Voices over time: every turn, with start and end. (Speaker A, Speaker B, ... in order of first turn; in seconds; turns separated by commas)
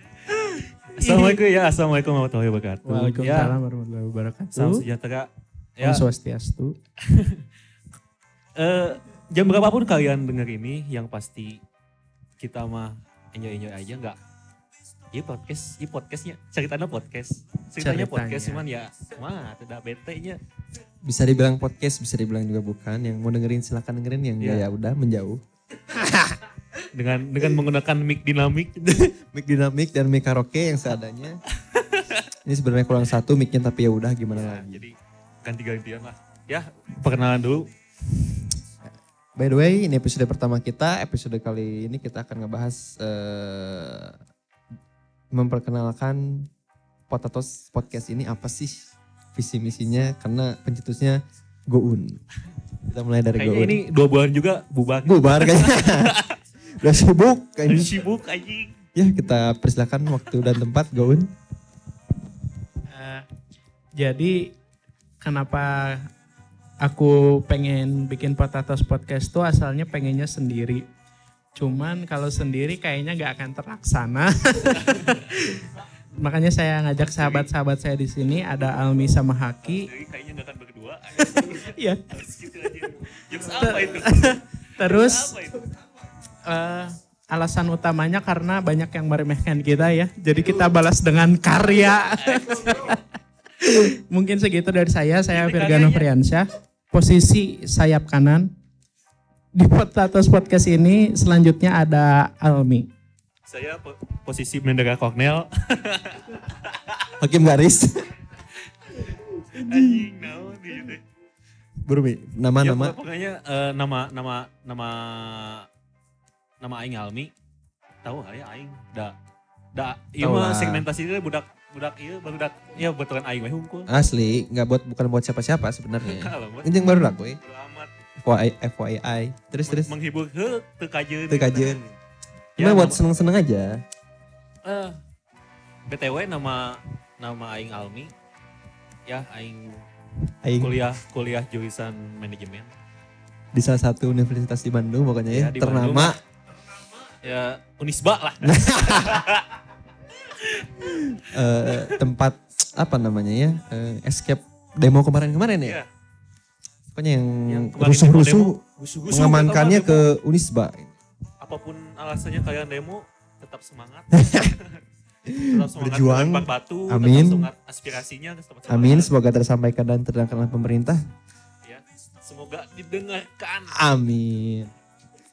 Speaker A: 0.4-1.4, Speaker B: 1.0-3.6, Speaker A: 2.8-4.8, Speaker B: 4.5-6.0, Speaker A: 5.8-6.7, Speaker B: 7.1-7.4, Speaker B: 8.6-11.6, Speaker B: 12.4-14.2, Speaker B: 15.1-20.4, Speaker A: 17.8-18.6, Speaker C: 21.0-26.4, Speaker B: 24.4-24.7, Speaker B: 26.9-28.7, Speaker C: 28.8-31.4, Speaker B: 31.7-32.2, Speaker C: 32.4-34.8, Speaker B: 34.3-37.7, Speaker C: 39.4-44.2, Speaker C: 45.3-46.5, Speaker C: 47.1-52.2, Speaker C: 52.9-53.8, Speaker B: 53.4-56.4, Speaker C: 55.0-56.2, Speaker C: 56.8-58.0, Speaker B: 57.7-58.7, Speaker C: 58.9-61.3, Speaker A: 62.9-63.3, Speaker A: 64.0-64.5, Speaker A: 65.2-66.1, Speaker A: 66.8-70.8, Speaker A: 71.5-79.9, Speaker B: 77.1-77.5, Speaker B: 79.6-85.7, Speaker A: 81.2-82.1, Speaker A: 83.4-85.4, Speaker A: 86.5-93.0, Speaker B: 92.0-92.9, Speaker A: 93.6-98.5, Speaker B: 95.3-96.1, Speaker A: 99.5-102.9, Speaker B: 103.5-107.1, Speaker C: 107.2-108.0, Speaker B: 108.9-111.0, Speaker C: 111.8-113.0, Speaker B: 112.6-115.7, Speaker B: 116.6-117.3, Speaker B: 118.0-119.2, Speaker B: 119.7-123.9, Speaker C: 120.2-120.9, Speaker C: 123.9-127.4, Speaker B: 126.0-126.7, Speaker B: 127.4-127.9, Speaker C: 128.2-129.9, Speaker B: 129.6-131.9, Speaker C: 131.3-131.8, Speaker C: 132.6-133.8, Speaker B: 132.6-133.0, Speaker B: 134.6-135.0, Speaker B: 135.9-138.1, Speaker B: 139.1-139.8, Speaker C: 140.4-140.8, Speaker B: 140.6-142.7, Speaker C: 143.5-146.2, Speaker B: 145.3-146.2, Speaker B: 147.2-149.5, Speaker C: 148.4-149.2, Speaker B: 150.4-151.2, Speaker C: 151.2-155.8, Speaker B: 151.7-152.0, Speaker C: 156.9-160.9, Speaker B: 157.5-160.1, Speaker B: 161.4-164.8, Speaker C: 164.1-164.5, Speaker C: 165.2-167.5, Speaker B: 165.4-169.1, Speaker C: 168.7-171.0, Speaker B: 171.6-173.8, Speaker C: 173.7-174.7